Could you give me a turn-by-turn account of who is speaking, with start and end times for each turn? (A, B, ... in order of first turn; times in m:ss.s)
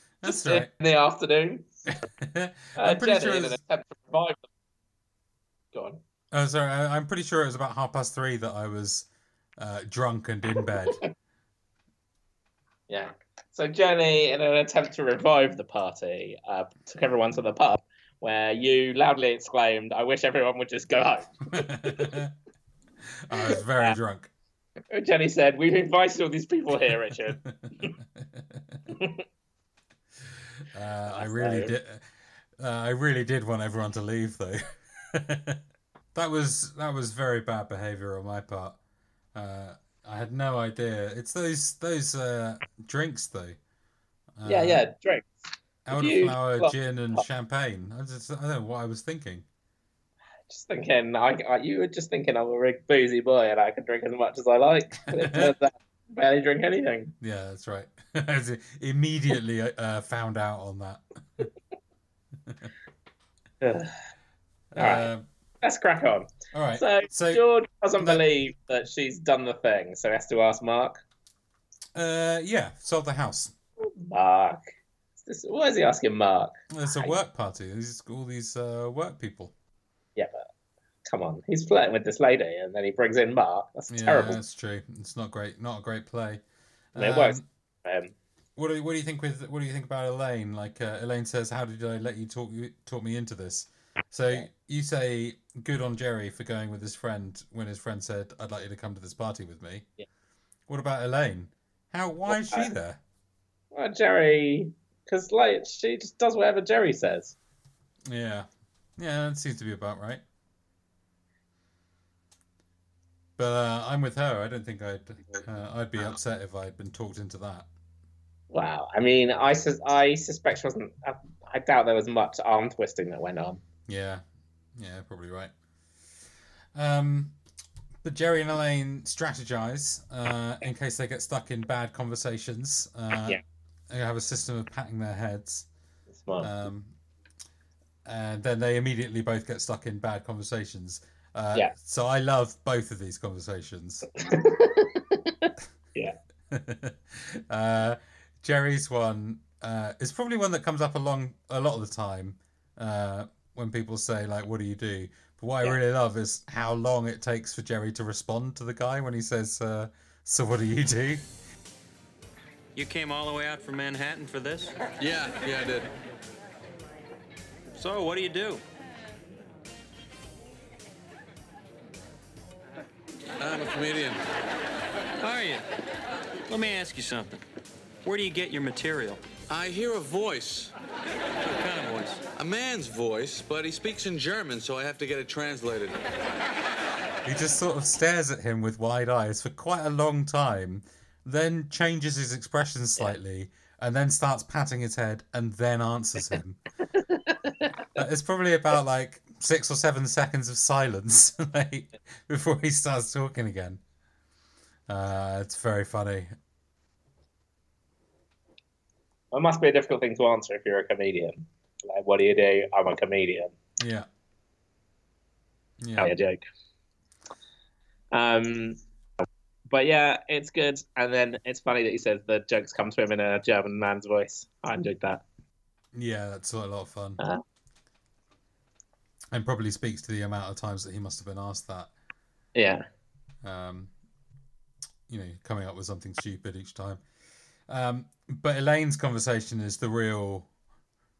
0:00.2-0:00.7 A
0:00.2-0:01.7 B
0:02.2-0:03.6 A
0:02.8-0:04.4 B
0:05.7-0:06.0 B
0:06.3-0:11.0 A
0:12.9-0:22.1 B
0:21.5-0:22.3 A
0:23.3-0:24.3 A
0:23.4-0:23.9 B
0:24.9-0:27.9 B
0:27.4-0:28.8 A
0:28.9-0:29.2 B
0:30.7-0:32.0 A
0:31.1-0:31.7 B
0:32.6-0:35.6 A
0:36.1-0:38.8 A
0:39.3-0:43.6 A
0:44.4-0:44.8 A
0:44.4-0:45.4 B
0:45.8-0:49.4 A
0:45.9-0:46.7 B
0:50.5-0:57.1 B
0:55.2-0:55.5 A
0:57.2-1:01.5 A
1:03.6-1:03.9 B
1:04.7-1:05.2 A
1:04.8-1:05.1 B
1:05.6-1:11.0 B
1:06.5-1:07.4 A
1:08.0-1:08.2 A
1:11.9-1:13.5 A
1:13.8-1:14.6 B
1:15.2-1:17.2 B
1:16.7-1:19.5 A
1:20.2-1:20.5 B
1:21.0-1:24.4 B
1:23.9-1:26.4 A
1:26.9-1:27.4 A
1:27.0-1:28.1 B
1:28.6-1:39.9 A
1:40.7-1:43.0 A
1:42.3-1:42.7 B
1:43.7-1:47.3 B
1:48.0-1:50.2 A
1:53.4-1:57.7 A
1:58.5-2:03.6 B
2:03.9-2:04.2 A
2:04.8-2:05.5 A
2:06.7-2:07.3 A
2:08.0-2:15.7 A
2:16.1-2:16.5 B
2:16.4-2:16.9 A
2:18.0-2:24.1 A
2:24.2-2:26.1 B
2:26.5-2:41.3 A
2:42.7-2:44.7 C
2:45.0-2:45.9 D
2:47.7-2:48.6 C
2:53.4-2:54.2 D
2:55.2-2:55.6 C
2:56.5-2:57.4 C
2:58.0-2:59.2 C
2:59.5-3:00.7 D
3:01.5-3:02.2 C
3:02.3-3:06.0 D
3:07.2-3:16.6 A
3:17.1-3:17.7 B
3:17.9-3:23.8 A
3:24.9-3:26.3 A
3:29.3-3:33.5 B
3:33.8-3:34.1 A
3:35.8-3:36.1 A
3:36.0-3:36.4 B
3:38.1-3:38.8 B
3:39.7-3:45.2 B
3:45.9-3:47.2 A
3:49.3-3:51.9 A
3:52.5-3:52.8 B
3:53.4-3:53.9 A
3:55.1-3:57.0 A
3:57.7-4:00.5 A